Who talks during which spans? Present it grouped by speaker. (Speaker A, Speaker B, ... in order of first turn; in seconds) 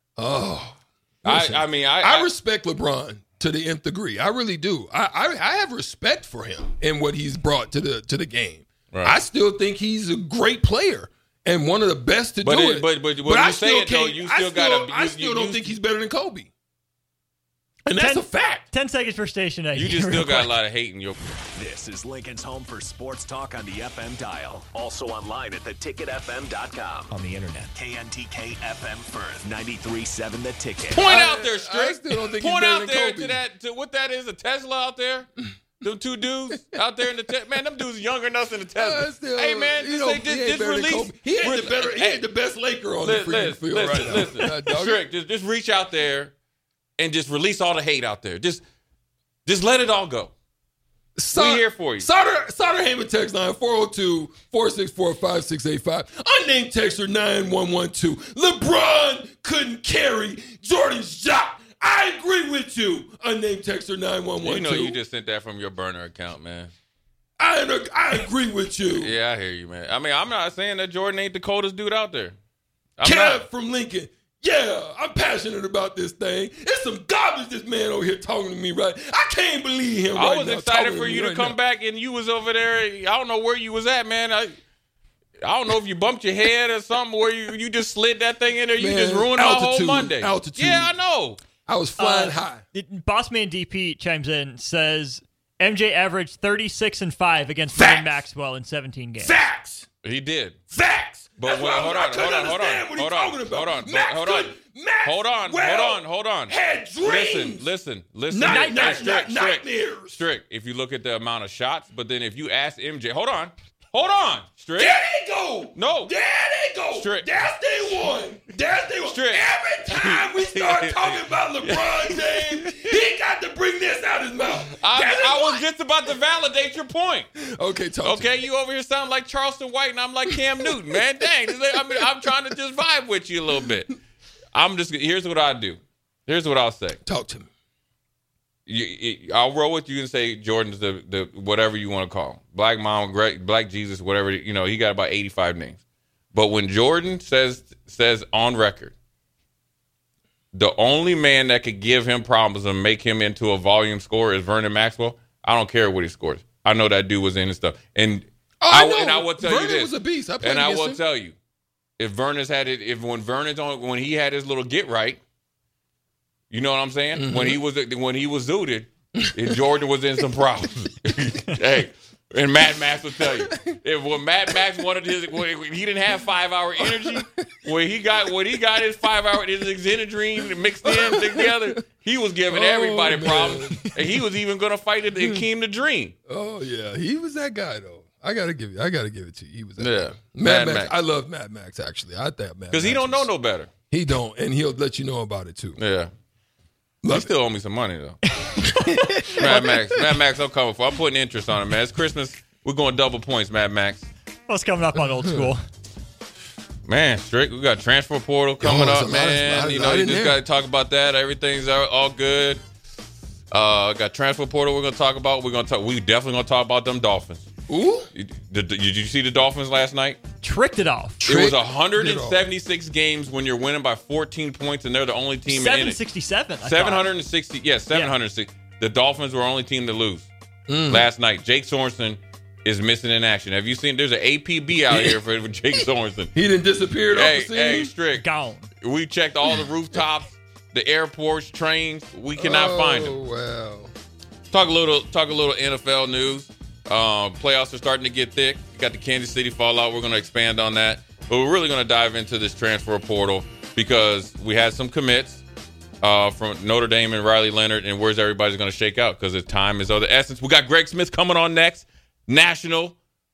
Speaker A: 0.2-16.5, 17.9-18.6, 31.0-33.4, 38.8-45.0, 51.1-65.0, 67.4-69.1, 73.0-81.6, 88.8-90.9, 91.7-92.6, 97.7-98.2, 99.2-99.9, 100.7-107.7, 108.3-110.2, 114.8-125.7, 127.3-128.4, 130.3-131.0, 131.7-132.2, 137.0-137.5, 158.6-161.0, 167.2-167.6, 169.2-169.5, 173.3-173.6, 176.8-177.5, 180.8-181.8, 182.5-184.2, 185.2-185.4, 186.3-193.3, 193.9-195.8, 197.0-197.3, 198.8-199.9, 205.0-205.5, 208.6-210.4, 217.7-218.1, 221.2-222.5, 230.7-231.1, 234.9-235.2, 235.7-237.9, 242.3-243.9
Speaker B: 1.2-2.3, 8.9-9.2, 12.4-15.8, 19.8-21.2, 30.9-35.3, 35.8-42.2, 43.0-46.3, 47.0-48.6, 49.5-50.3, 51.3-52.1, 64.4-66.7, 68.9-72.3, 73.0-73.4, 80.1-84.5, 85.4-91.4, 100.0-100.6, 101.4-114.9, 115.7-116.1, 116.9-117.3, 119.0-122.9, 124.8-127.3, 128.0-134.0, 134.5-137.0, 138.7-145.8, 146.3-148.9, 150.5-161.3, 162.0-165.2, 166.5-186.1, 189.8-190.9, 192.7-193.7, 195.8-196.1, 197.1-198.2, 199.4-204.1, 206.9-212.6, 213.5-217.4, 218.1-220.2, 221.2-226.0, 226.6-230.3, 230.9-236.3, 237.1-238.2, 238.8-243.1, 244.5-255.4, 256.0-262.9
Speaker C: 17.9-20.6, 92.0-99.4, 108.4-109.2, 198.3-199.6, 204.5-205.6, 220.4-221.2, 225.5-227.1, 227.9-228.1, 238.1-238.7
Speaker D: 21.5-31.0